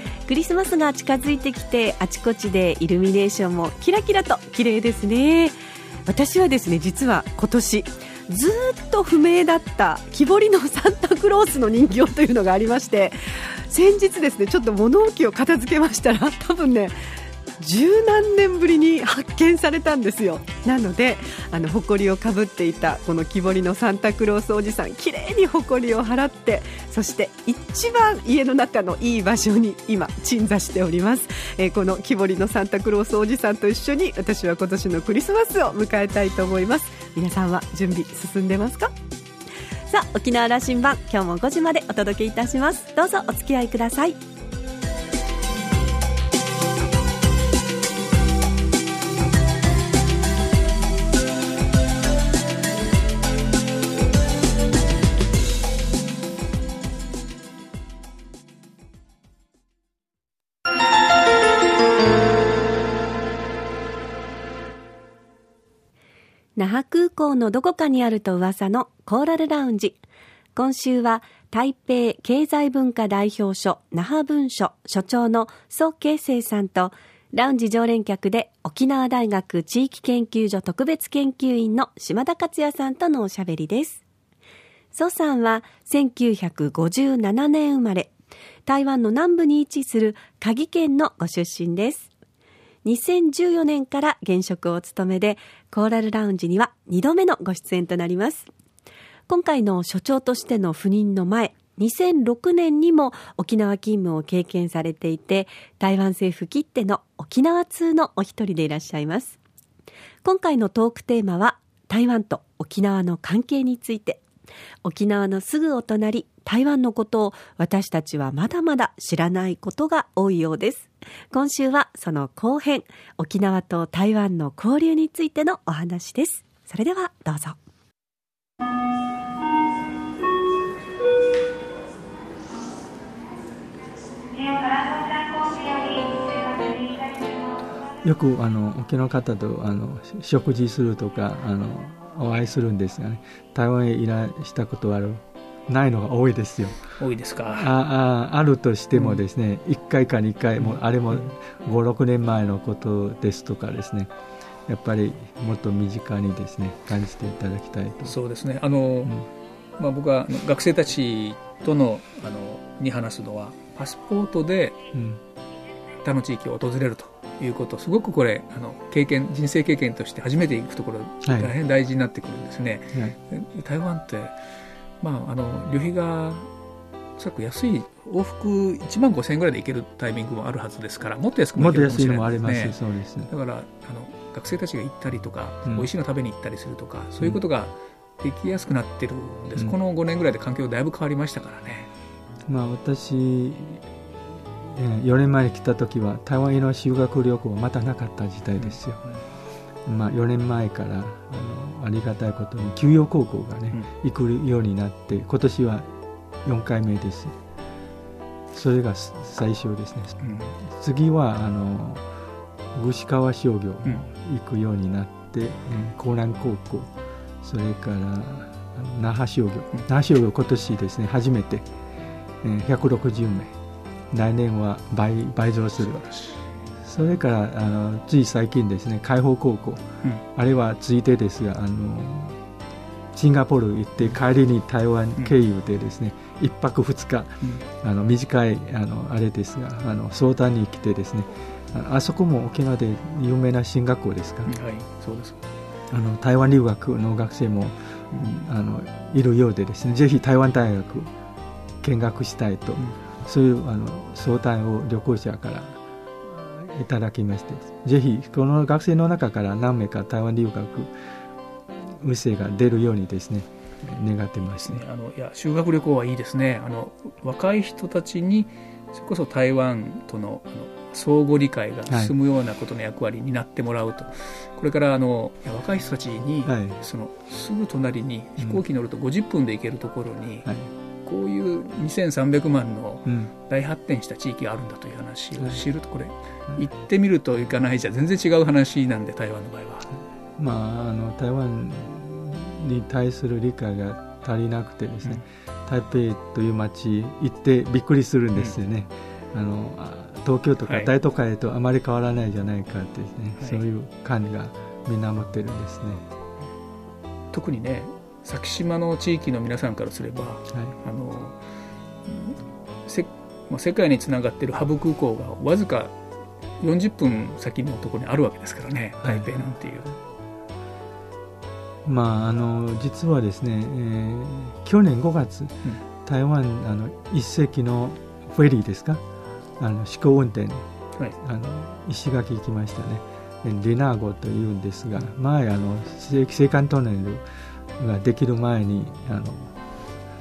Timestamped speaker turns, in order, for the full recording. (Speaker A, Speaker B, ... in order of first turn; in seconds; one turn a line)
Speaker A: 0.3-5.5
Speaker A: 6.1-16.9
Speaker A: 17.6-38.9
Speaker A: 39.9-44.2
Speaker A: 66.6-70.0
Speaker A: 70.6-84.0
Speaker A: 84.9-88.1
Speaker A: 88.7-92.1
Speaker A: 92.8-98.5
Speaker A: 99.3-109.4
Speaker A: 110.2-114.2
Speaker A: 114.8-127.6
Speaker A: 134.3-137.4
Speaker B: 138.0-146.9
Speaker C: 146.9-147.7
Speaker B: 147.5-154.1
Speaker C: 148.9-149.2
Speaker B: 154.7-158.2
Speaker C: 158.1-159.2
Speaker C: 159.8-164.8
Speaker B: 164.9-165.2
Speaker C: 166.0-174.4
Speaker B: 171.2-171.5
Speaker C: 175.0-176.5
Speaker C: 177.2-191.9
Speaker B: 181.6-183.3
Speaker B: 192.5-193.9
Speaker B: 194.4-199.0
Speaker B: 199.9-205.9
Speaker B: 206.4-207.3
Speaker B: 208.5-212.1
Speaker C: 210.2-210.6
Speaker B: 212.8-216.9
Speaker B: 217.4-221.6
Speaker B: 222.4-223.5
Speaker B: 224.1-226.1
Speaker C: 225.8-226.5
Speaker B: 226.8-229.8
Speaker B: 230.3-232.4
Speaker B: 233.1-244.5
Speaker C: 244.4-245.4
Speaker B: 245.9-251.1
Speaker C: 248.1-248.4
Speaker B: 251.8-260.9
Speaker B: 261.9-264.8
Speaker C: 264.6-280.5
Speaker B: 271.9-272.1
Speaker B: 276.4-276.8
Speaker B: 280.4-280.7
Speaker C: 281.0-289.9
Speaker B: 283.1-283.3
Speaker B: 285.4-285.6
Speaker B: 290.4-306.0
Speaker C: 300.6-300.9
Speaker C: 307.3-311.4
Speaker C: 312.0-315.9
Speaker C: 316.6-319.9
Speaker B: 319.0-319.6
Speaker B: 321.8-329.0
Speaker B: 329.6-337.2
Speaker B: 337.8-339.5